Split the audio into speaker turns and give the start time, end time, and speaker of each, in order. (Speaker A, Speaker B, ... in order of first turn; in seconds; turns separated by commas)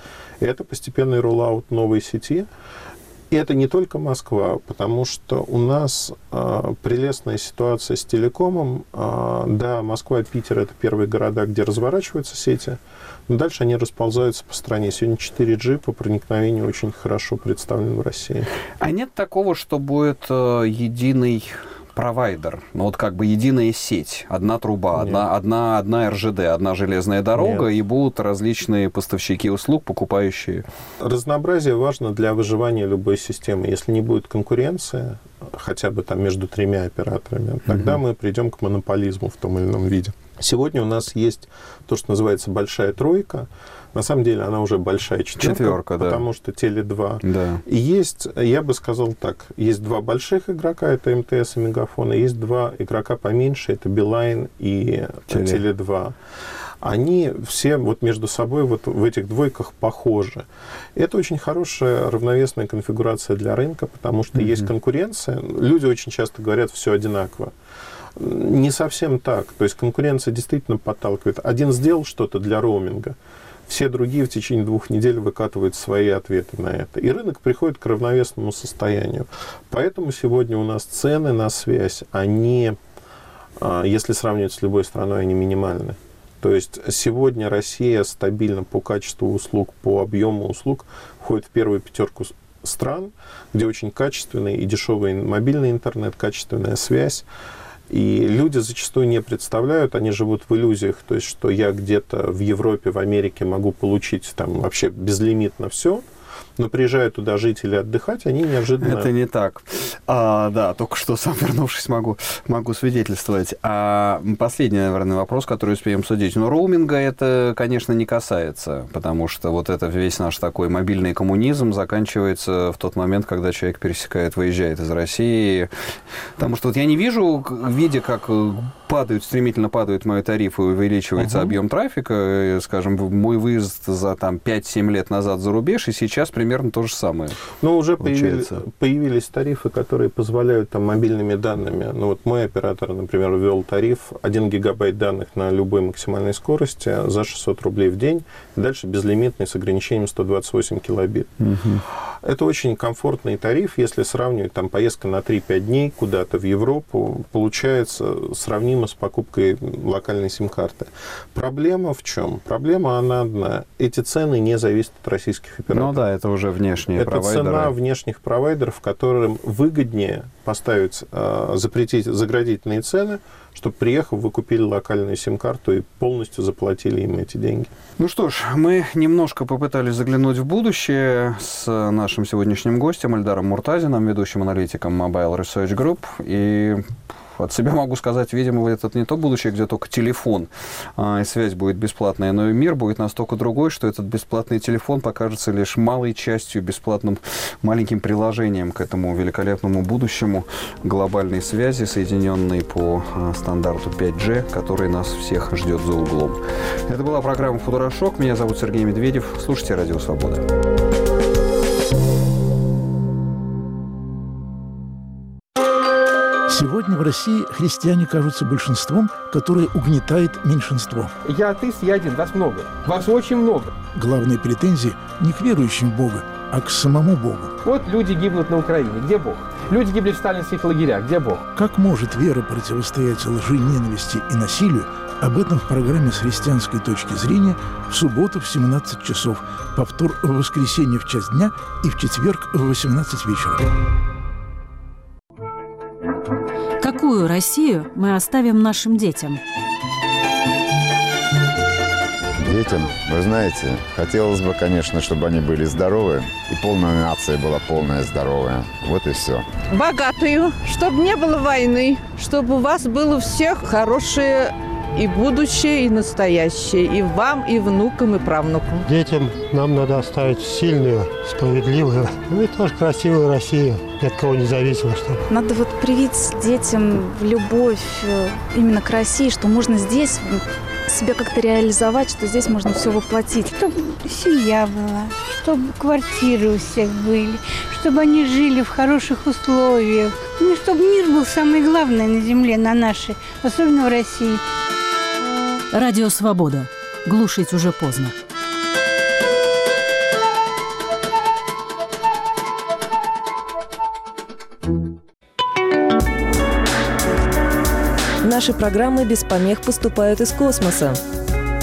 Speaker A: 0.4-2.5, Speaker A: 3.3-18.5, Speaker B: 18.8-30.6, Speaker A: 24.9-25.2, Speaker A: 27.4-27.7, Speaker A: 31.0-56.1, Speaker B: 37.7-38.0, Speaker B: 45.4-46.3, Speaker B: 47.2-47.6, Speaker B: 55.3-55.6, Speaker A: 56.8-67.5, Speaker B: 64.4-64.7, Speaker A: 68.2-73.2, Speaker A: 73.7-82.8, Speaker A: 83.6-97.3, Speaker A: 97.9-106.1, Speaker A: 106.6-109.1, Speaker B: 108.8-125.7, Speaker B: 126.4-137.4, Speaker A: 131.2-131.6, Speaker A: 137.6-151.3, Speaker B: 138.0-138.6, Speaker B: 151.4-151.8, Speaker A: 152.2-166.0, Speaker B: 165.7-167.7, Speaker A: 166.9-177.7, Speaker B: 178.0-210.4, Speaker C: 216.5-221.1, Speaker D: 221.2-223.7, Speaker C: 223.9-227.5, Speaker D: 227.6-231.4, Speaker C: 231.5-243.6, Speaker E: 246.8-249.4, Speaker F: 252.4-259.5, Speaker G: 259.7-268.9, Speaker H: 268.9-275.2, Speaker I: 275.3-283.5, Speaker J: 283.5-294.4, Speaker E: 295.7-298.1, Speaker K: 308.2-311.0